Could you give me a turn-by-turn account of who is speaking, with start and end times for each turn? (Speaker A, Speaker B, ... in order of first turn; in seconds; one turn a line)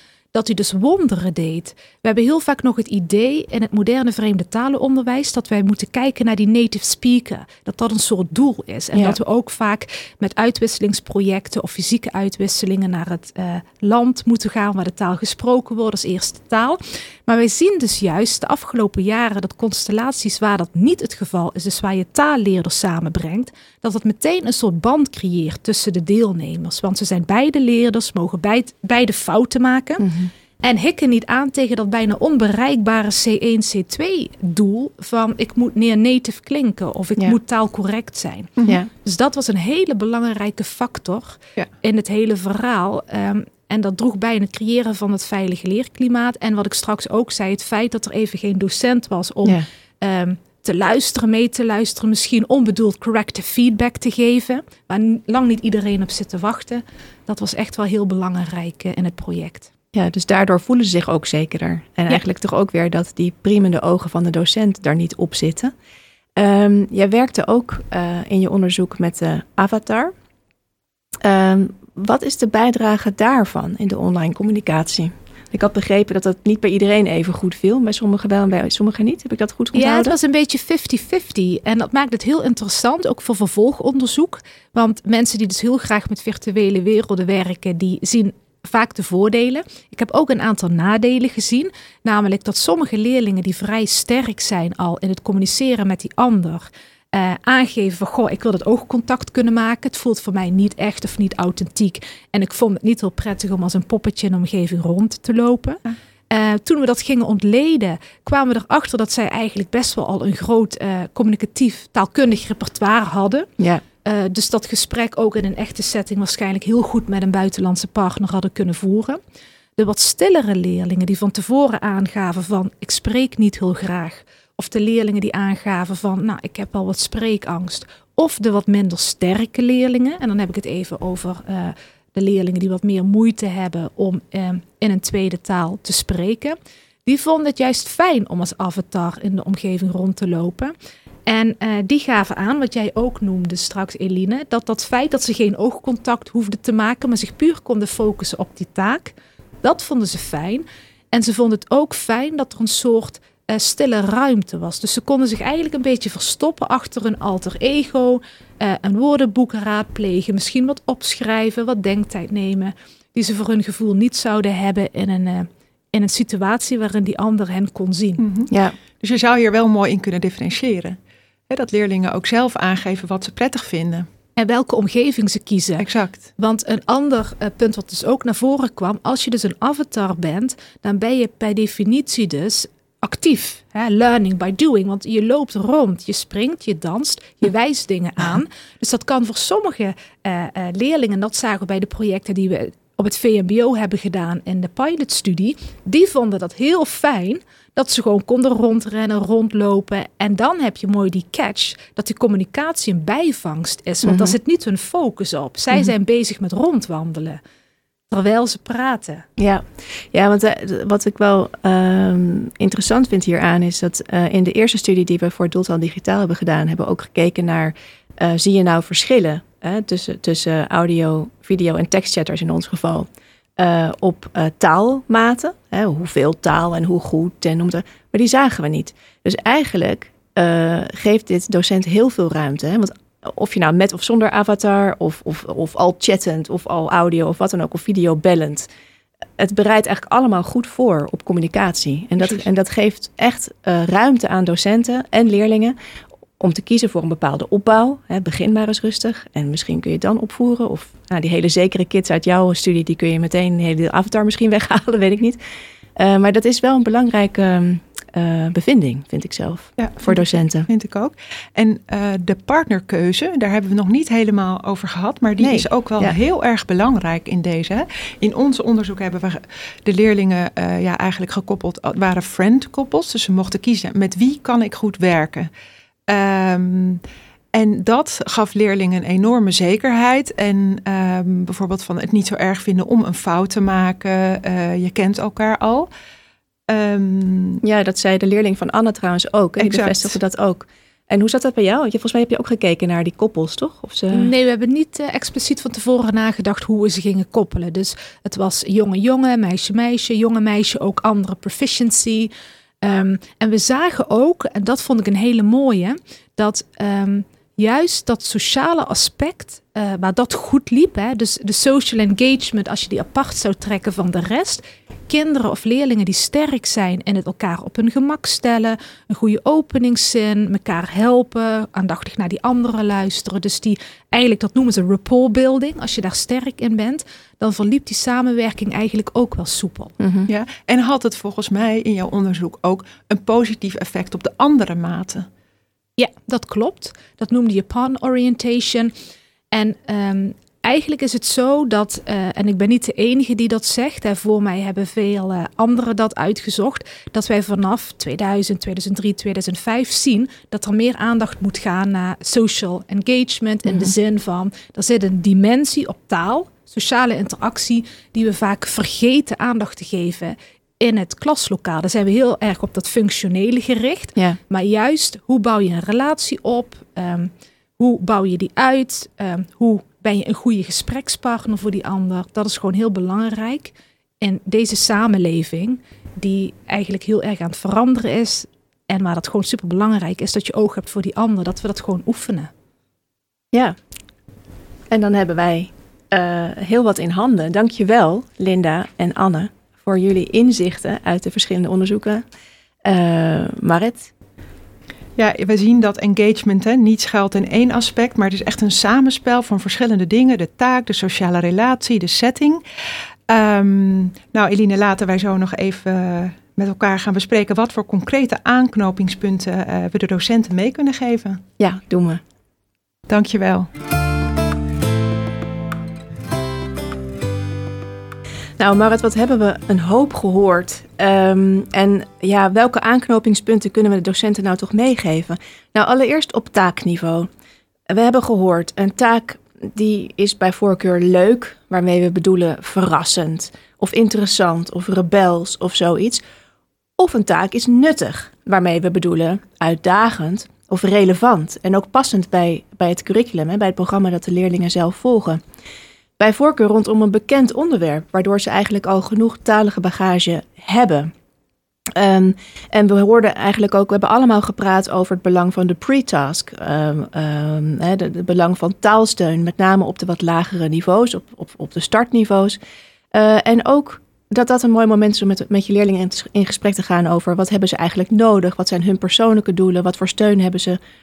Speaker A: 0.3-30.1
Speaker B: 30.0-30.3
Speaker A: 30.6-59.7
Speaker B: 59.9-65.7
Speaker B: 66.3-70.1
Speaker B: 71.2-80.1
Speaker A: 79.7-113.5
Speaker A: 114.0-119.2
Speaker A: 119.8-140.7
Speaker A: 141.3-168.2
Speaker C: 168.2-171.0
Speaker B: 168.5-168.8
Speaker C: 171.5-174.1
Speaker A: 174.3-207.4
Speaker C: 175.8-176.3
Speaker B: 204.0-204.3
Speaker A: 208.1-209.2
Speaker B: 209.4-238.7
Speaker B: 239.4-245.7
Speaker B: 246.4-255.4
Speaker B: 256.0-260.7
Speaker C: 259.8-275.5
Speaker B: 265.4-266.2
Speaker C: 276.1-277.0
Speaker C: 277.5-285.9
Speaker C: 286.7-287.6
Speaker B: 287.6-294.3
Speaker C: 289.6-290.1
Speaker A: 294.1-302.3
Speaker A: 302.8-329.9
Speaker B: 330.0-330.3
Speaker C: 330.3-335.3
Speaker A: 336.0-338.9
Speaker A: 339.5-382.5
Speaker B: 384.9-392.2
Speaker B: 392.8-394.1
Speaker C: 395.2-402.6
Speaker C: 403.3-411.4
Speaker B: 411.6-412.2
Speaker C: 413.1-413.7
Speaker B: 418.6-427.3
Speaker B: 427.9-436.2
Speaker B: 437.0-445.4
Speaker B: 446.2-451.1
Speaker B: 451.9-462.6
Speaker B: 463.1-470.8